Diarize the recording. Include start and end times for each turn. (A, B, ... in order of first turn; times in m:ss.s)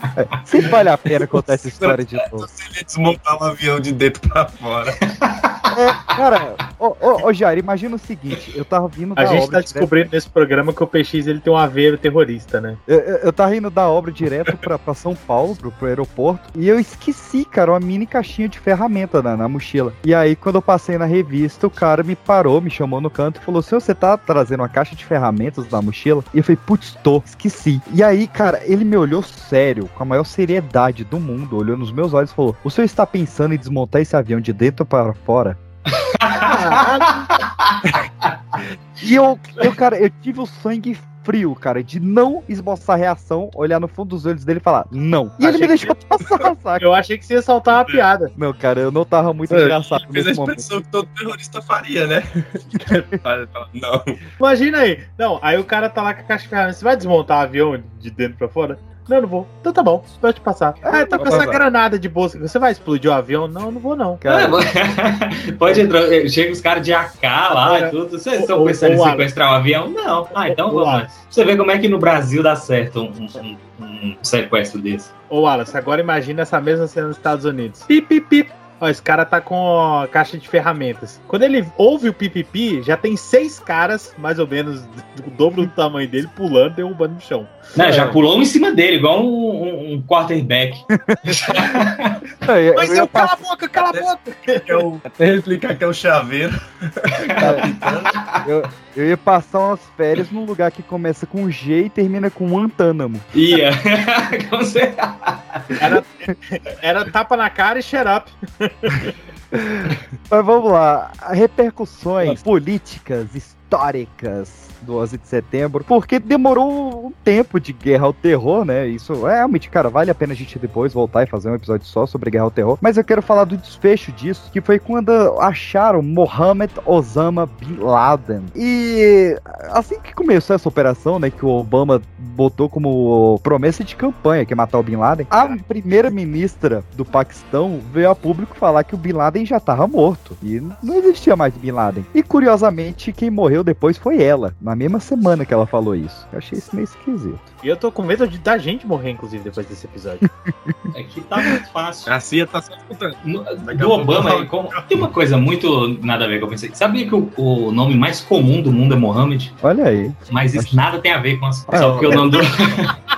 0:00.2-0:02.5 A
0:01.8-0:05.0 B
0:05.2-0:05.7 C
0:05.7-0:10.1 A
0:09.2-0:12.8 D
0:12.9-0:35.6 A
0:35.9-0:38.3 C
0:36.3-0:37.2 D
0:39.0-0:46.9 A
0:45.4-0:45.9 B
0:46.8-0:48.3 D
0:48.4-0:50.6 A
0:49.5-0:54.2 B
0:54.4-1:04.2 D
1:00.8-1:01.6 A
1:04.2-1:04.6 A
1:04.3-1:15.1 C
1:07.5-1:09.3 D
1:10.3-1:11.2 D
1:15.3-1:27.6 D
1:27.7-1:32.2 C
1:27.8-1:28.2 A
1:31.1-1:31.8 A
1:32.4-1:33.4 A
1:32.7-1:34.9 D
1:33.9-1:38.0 B
1:37.3-1:38.4 C
1:37.4-1:37.6 A
1:38.4-1:43.2 A
1:43.3-1:45.6 C
1:45.8-1:49.1 D
1:49.5-2:27.5 A
2:27.6-2:30.2 D
2:30.9-2:32.1 C
2:32.1-2:34.8 B
2:33.2-2:39.5 C
2:39.6-2:40.8 A
2:40.3-2:42.9 C
2:41.7-2:42.4 A